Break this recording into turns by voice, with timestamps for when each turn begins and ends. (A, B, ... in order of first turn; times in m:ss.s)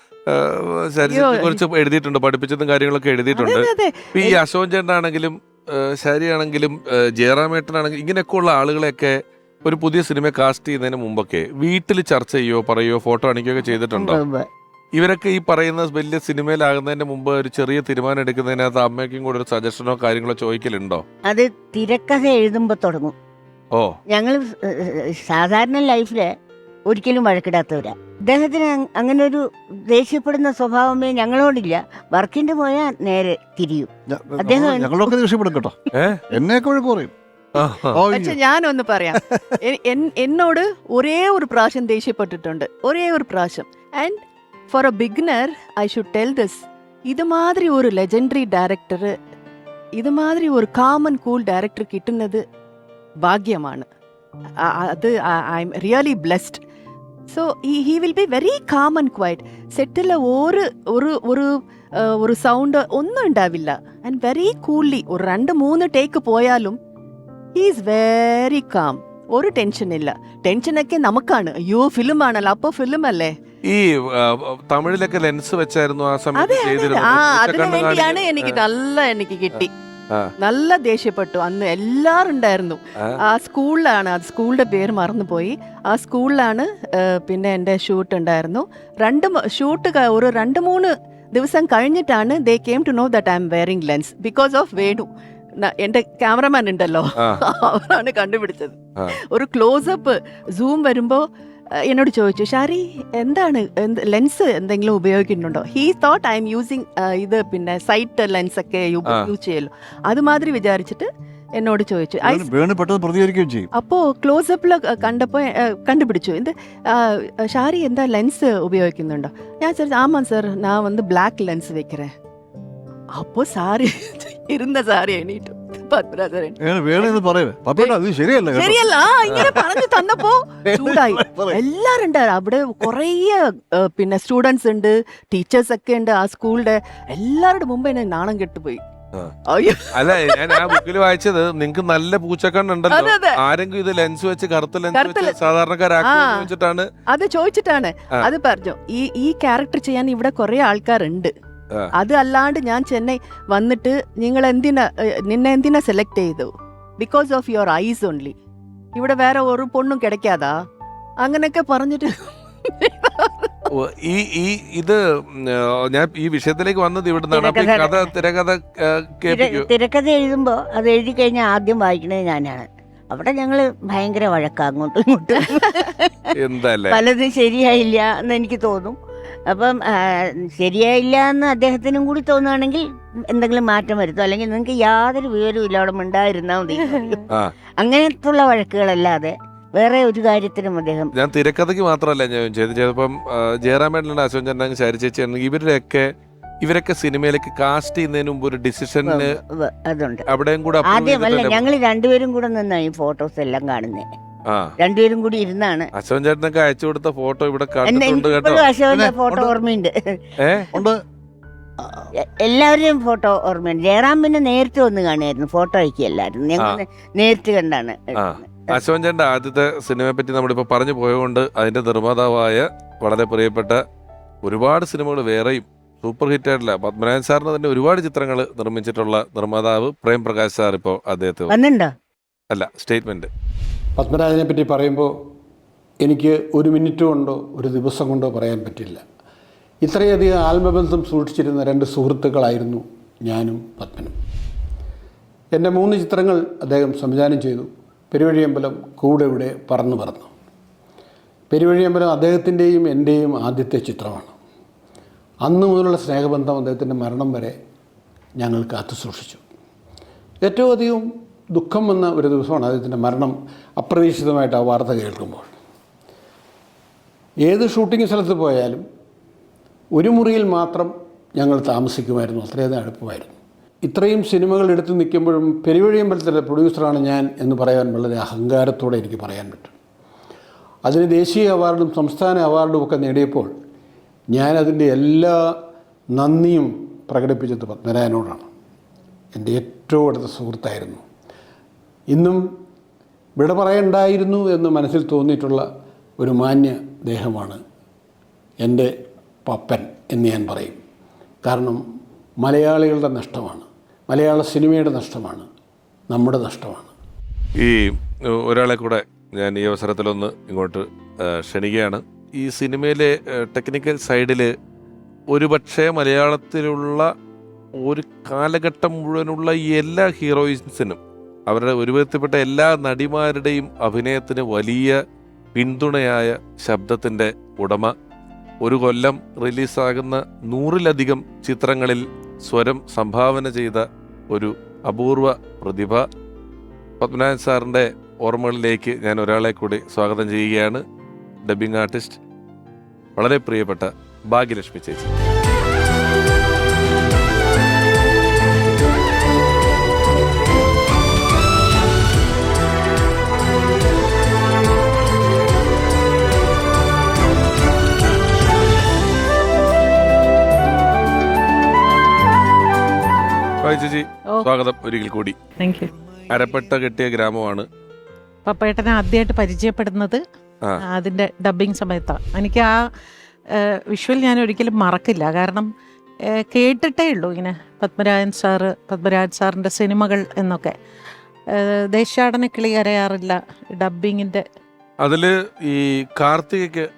0:00.3-0:14.2 A
0:01.0-0:01.6 B
0:03.3-0:04.4 B
0:13.9-0:14.5 C
0:14.9-0:21.0 A
0:21.2-0:23.1 C
0:24.1-0:26.3 C
0:26.9-0:35.1 C
0:34.1-0:35.8 D
0:35.9-0:36.2 A
0:36.3-0:37.1 D
0:37.6-0:37.9 A
0:37.9-0:38.4 D
0:38.1-0:44.2 B
0:39.1-0:39.5 D
0:44.7-0:49.1 B
0:50.0-0:52.4 B
0:53.2-0:53.8 B
0:54.8-0:56.6 B
0:57.3-1:06.8 B
1:07.6-1:13.3 B
1:13.6-1:18.6 A
1:16.4-1:19.7 B
1:20.4-1:35.1 B
1:35.6-1:38.8 B
1:39.3-1:41.2 B
1:41.8-1:52.5 B
1:52.2-1:53.7 D
1:53.7-2:02.1 B
2:03.2-2:07.2 B
2:06.6-2:09.6 D
2:08.5-2:18.8 B
2:10.6-2:11.6 D
2:19.5-2:20.8 B
2:19.9-2:26.9 A
2:22.9-2:23.4 B
2:24.9-2:25.4 B
2:26.0-2:26.5 B
2:27.1-2:31.3 B
2:32.0-2:38.3 B
2:39.0-2:40.5 B
2:41.2-2:42.1 B
2:42.8-2:43.5 B
2:43.7-2:49.7 A
2:47.3-2:48.0 C
2:49.3-2:56.3 C
2:56.3-2:57.0 A
2:56.9-2:59.0 C
2:59.5-3:07.2 C
3:07.8-3:11.1 C
3:11.1-3:16.1 A
3:16.6-3:19.3 A
3:19.0-3:20.2 C
3:20.3-3:21.6 A
3:20.9-3:24.1 C
3:24.5-3:24.7 A
3:24.8-3:25.9 C
3:26.0-3:28.7 A
3:27.8-3:30.2 C
3:28.9-3:29.4 D
3:30.4-3:30.6 A
3:30.7-3:31.0 D
3:31.8-3:32.1 D
3:32.2-3:38.8 C
3:38.2-3:43.8 A
3:44.4-3:51.5 A
3:51.5-3:51.9 C
3:52.5-3:53.3 A
3:54.0-3:55.1 E
3:56.0-3:59.0 E
3:59.8-4:04.1 E
4:05.5-4:10.3 E
4:11.5-4:14.3 E
4:15.4-4:17.6 E
4:18.4-4:19.4 E
4:20.4-4:25.5 E
4:27.4-4:28.8 E
4:30.0-4:39.7 E
4:40.8-4:43.5 E
4:44.3-4:45.4 E
4:46.1-4:48.5 E
4:49.3-4:51.0 E
4:52.1-4:52.4 E
4:53.4-4:55.6 E
4:56.2-4:57.6 E
4:58.6-4:58.9 E
4:59.4-5:00.8 E
5:01.4-5:01.8 E
5:02.4-5:05.4 E
5:06.1-5:06.9 E
5:07.6-5:14.5 A
5:15.3-5:17.1 A
5:17.8-5:25.0 A
5:25.5-5:27.9 A
5:28.6-5:36.0 A
5:37.0-5:40.8 A
5:41.4-5:42.2 A
5:43.2-5:45.1 A
6:03.6-6:05.4 A
6:05.6-6:05.9 F
6:06.3-6:07.6 A
6:08.4-6:10.2 F
6:10.9-6:12.7 F
6:13.6-6:15.7 F
6:16.4-6:20.7 F
6:21.6-6:24.4 F
6:25.0-6:26.9 A